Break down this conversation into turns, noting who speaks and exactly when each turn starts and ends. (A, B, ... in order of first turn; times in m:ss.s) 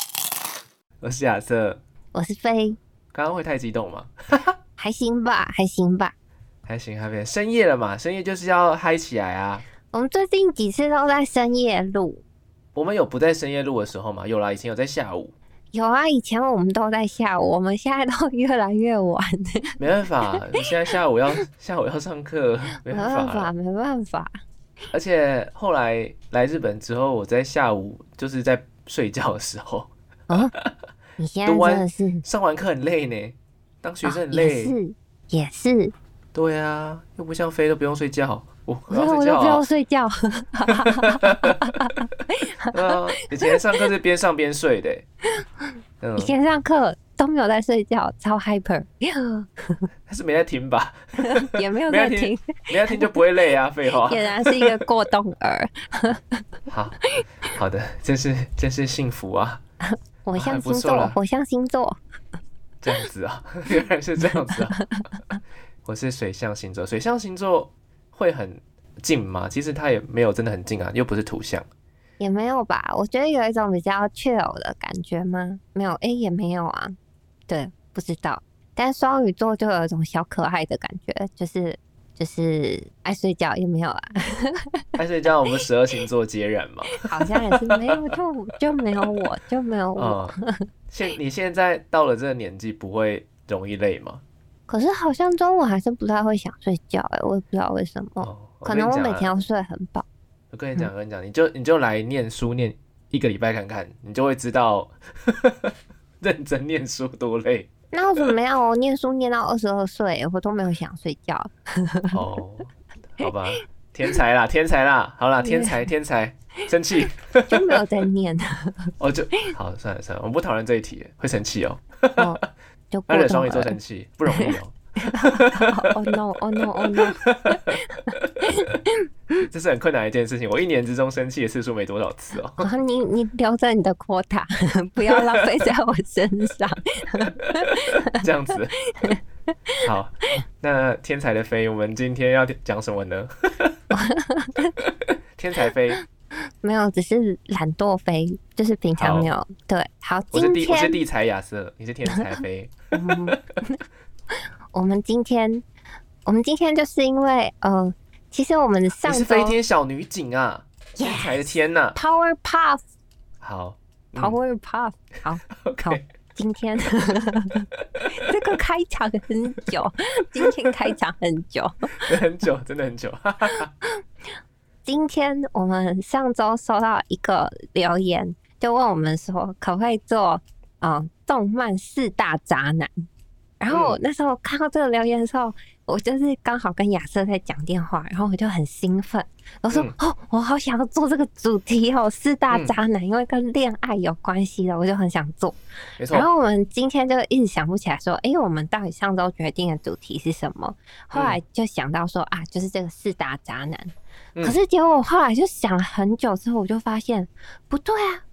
0:01.0-0:01.8 A
0:02.1-0:02.8 B
0:03.1-0:04.6 A
0:04.8-0:06.1 B
0:06.6-0:09.6 A
0:09.9-0:12.2 B
0:12.7-0:15.3 A
0:15.7-0:19.8 B
0:19.8-0:23.5 A
0:22.9-0:24.4 B
0:24.9-0:30.7 A
0:31.2-0:32.2 B
0:31.4-0:34.7 A
0:34.0-0:35.9 B
0:36.3-0:39.6 A
0:38.9-0:43.6 B
0:40.8-0:42.0 A
0:42.7-0:45.0 A
0:46.0-0:46.3 A
0:46.2-0:49.9 B
0:50.1-0:54.8 A
0:51.2-0:53.2 B
0:54.0-0:56.4 B
0:56.7-0:59.6 A
0:59.9-1:02.0 B
1:00.4-1:01.2 A
1:02.8-1:04.8 A
1:04.8-1:05.2 B
1:05.8-1:11.6 A
1:12.2-1:17.0 B
1:17.5-1:24.8 B
1:25.0-1:28.2 A
1:27.0-1:30.6 B
1:28.8-1:29.1 A
1:30.0-1:30.4 A
1:30.9-1:34.2 A
1:34.7-1:40.0 B
1:38.2-1:39.3 A
1:40.5-1:48.3 A
1:47.9-1:52.2 B
1:52.1-1:57.8 A
1:55.4-1:55.8 B
1:57.5-1:59.5 B
1:59.0-2:02.4 A
2:02.2-2:03.8 B
2:03.1-2:05.9 A
2:04.3-2:09.1 B
2:06.7-2:08.8 A
2:09.4-2:12.7 A
2:12.6-2:18.1 B
2:15.1-2:15.4 A
2:17.4-2:18.8 A
2:19.0-2:19.8 B
2:19.8-2:23.8 A
2:23.9-2:24.8 B
2:24.8-2:26.0 A
2:26.6-2:31.0 B
2:29.0-2:29.3 A
2:30.3-2:33.4 A
2:32.9-2:33.8 B
2:34.7-2:35.6 B
2:36.2-2:39.6 B
2:39.0-2:42.0 A
2:41.0-2:41.4 B
2:41.9-2:42.8 B
2:43.4-2:44.4 A
2:44.2-2:52.1 B
2:45.6-2:46.0 A
2:52.0-2:53.7 A
2:54.8-3:02.9 B
3:03.6-3:15.6 B
3:03.7-3:04.0 A
3:16.0-3:16.3 A
3:16.1-3:28.2 B
3:21.1-3:21.4 A